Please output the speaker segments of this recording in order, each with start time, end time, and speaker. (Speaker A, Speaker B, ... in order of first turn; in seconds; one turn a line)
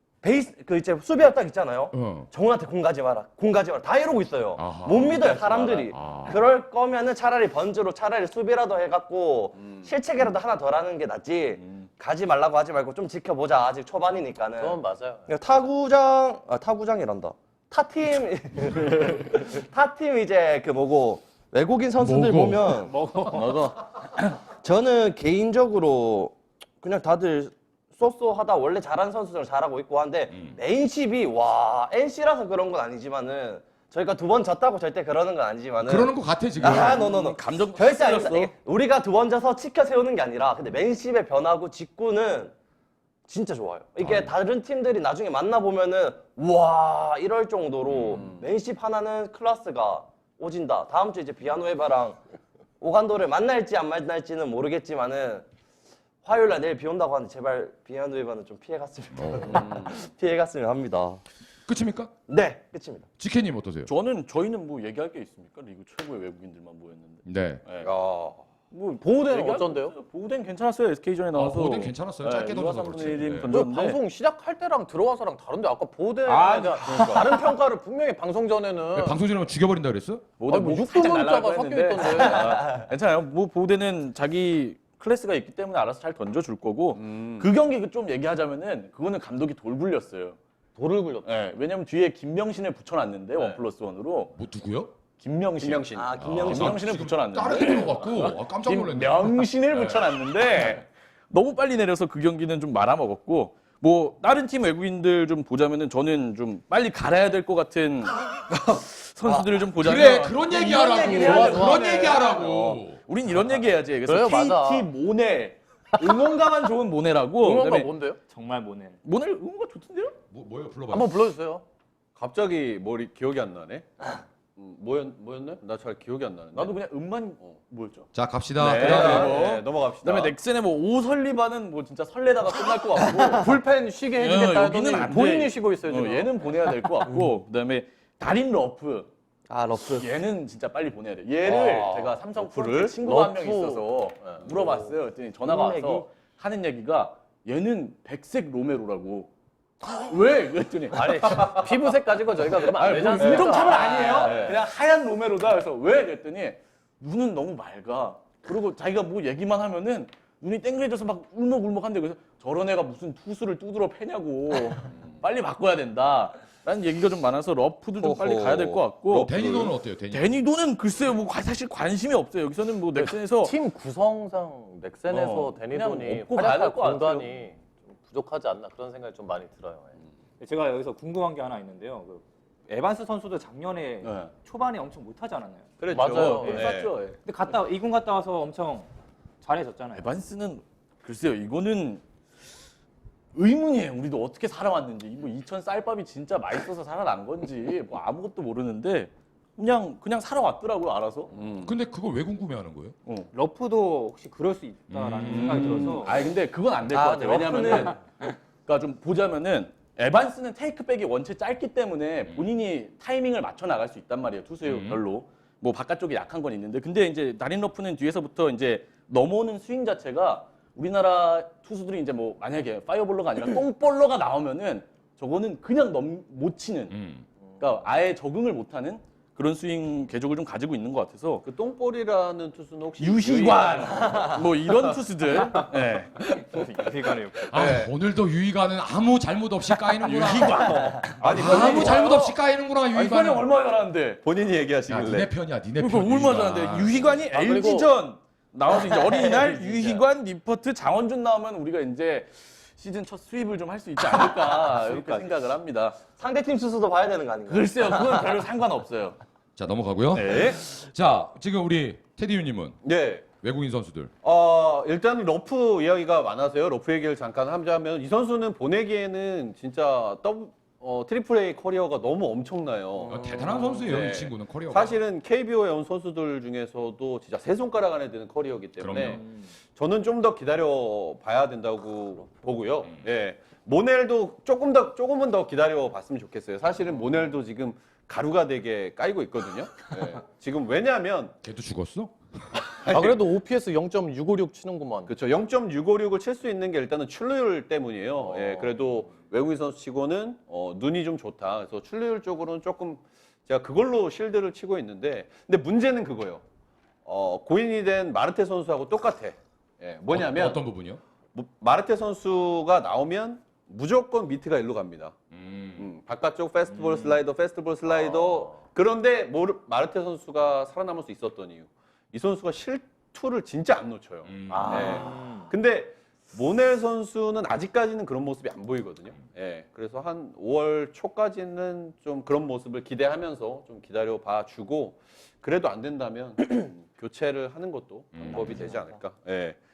Speaker A: 0.2-22.9
Speaker B: 1.9-2.3
Speaker B: 4.5-6.4
Speaker C: 5.5-5.9
Speaker D: 14.6-15.3
Speaker B: 22.0-22.7
Speaker E: 22.7-23.7
Speaker C: 23.4-23.7
Speaker A: 24.1-42.5
Speaker B: 30.3-30.6
Speaker B: 35.8-37.0
Speaker F: 36.6-38.5
Speaker A: 43.3-52.2
Speaker B: 44.0-44.3
Speaker B: 47.9-48.2
Speaker A: 52.8-55.4
Speaker A: 56.2-61.2
Speaker B: 59.1-59.7
Speaker B: 61.7-62.1
Speaker A: 62.3-63.1
Speaker B: 63.2-63.9
Speaker F: 63.9-67.9
Speaker B: 67.2-67.6
Speaker C: 67.8-68.4
Speaker F: 68.7-74.0
Speaker D: 69.1-69.9
Speaker B: 71.3-73.5
Speaker D: 73.5-79.2
Speaker F: 76.2-77.4
Speaker C: 76.8-77.1
Speaker B: 79.0-80.2
Speaker F: 80.4-90.4
Speaker D: 80.5-82.7
Speaker C: 86.9-87.5
Speaker D: 90.7-91.4
Speaker F: 91.2-94.3
Speaker D: 93.3-93.6
Speaker B: 94.3-94.9
Speaker F: 95.2-117.9
Speaker C: 95.6-96.1
Speaker A: 95.9-96.8
Speaker B: 96.2-100.8
Speaker B: 109.8-113.0
Speaker D: 110.9-112.1
Speaker D: 114.0-114.9
Speaker D: 117.4-118.2
Speaker E: 118.3-119.0
Speaker F: 119.0-120.2
Speaker B: 120.3-121.2
Speaker D: 120.9-121.6
Speaker C: 122.2-123.9
Speaker C: 124.5-126.8
Speaker F: 126.5-128.1
Speaker B: 128.1-129.3
Speaker F: 128.6-133.6
Speaker C: 128.6-130.3
Speaker A: 133.0-133.4
Speaker D: 133.3-136.5
Speaker F: 134.2-139.1
Speaker A: 139.5-140.1
Speaker F: 139.9-151.6
Speaker C: 141.4-143.0
Speaker D: 143.0-144.5
Speaker A: 144.5-144.9
Speaker A: 145.4-146.1
Speaker D: 150.9-154.5
Speaker F: 152.6-169.3
Speaker E: 153.5-154.3
Speaker B: 153.7-154.2
Speaker C: 154.2-154.5
Speaker C: 168.0-169.7
Speaker B: 169.1-170.4
Speaker F: 170.1-173.5
Speaker D: 172.9-180.0
Speaker F: 175.1-177.3
Speaker E: 180.4-186.6
Speaker F: 184.0-184.3
Speaker C: 185.8-186.9
Speaker D: 185.8-186.7
Speaker F: 186.2-187.2
Speaker E: 187.2-188.9
Speaker E: 189.4-190.1
Speaker F: 189.9-192.0
Speaker F: 193.3-201.3
Speaker C: 201.3-201.7
Speaker B: 201.6-202.9
Speaker E: 203.3-206.2
Speaker B: 204.9-205.7
Speaker F: 205.2-227.0
Speaker C: 205.5-205.9
Speaker A: 206.9-208.0
Speaker B: 214.6-215.0
Speaker B: 226.9-227.2
Speaker F: 227.6-231.5
Speaker C: 231.4-234.1
Speaker F: 233.0-236.5
Speaker E: 236.4-237.5
Speaker B: 237.5-240.7
Speaker C: 237.6-237.9
Speaker F: 239.7-242.4
Speaker C: 241.2-242.1
Speaker B: 241.3-243.5
Speaker F: 242.9-244.2
Speaker C: 244.2-245.3
Speaker B: 244.9-247.1
Speaker F: 245.8-256.0
Speaker D: 247.2-247.9
Speaker D: 249.4-250.0
Speaker C: 254.5-255.4
Speaker A: 256.2-258.4
Speaker F: 257.4-259.2
Speaker B: 259.6-262.8
Speaker F: 260.1-260.6
Speaker C: 262.8-263.3
Speaker B: 263.4-264.1
Speaker C: 264.2-291.3
Speaker B: 273.1-275.0
Speaker B: 278.8-279.2
Speaker B: 291.4-292.5
Speaker C: 292.8-293.2
Speaker D: 292.8-295.1
Speaker C: 295.1-306.4
Speaker C: 307.1-310.6
Speaker B: 310.1-311.0
Speaker C: 311.3-315.1
Speaker B: 315.3-315.9
Speaker C: 315.8-339.6
Speaker B: 324.2-324.9
Speaker D: 324.5-325.1
Speaker B: 338.2-338.8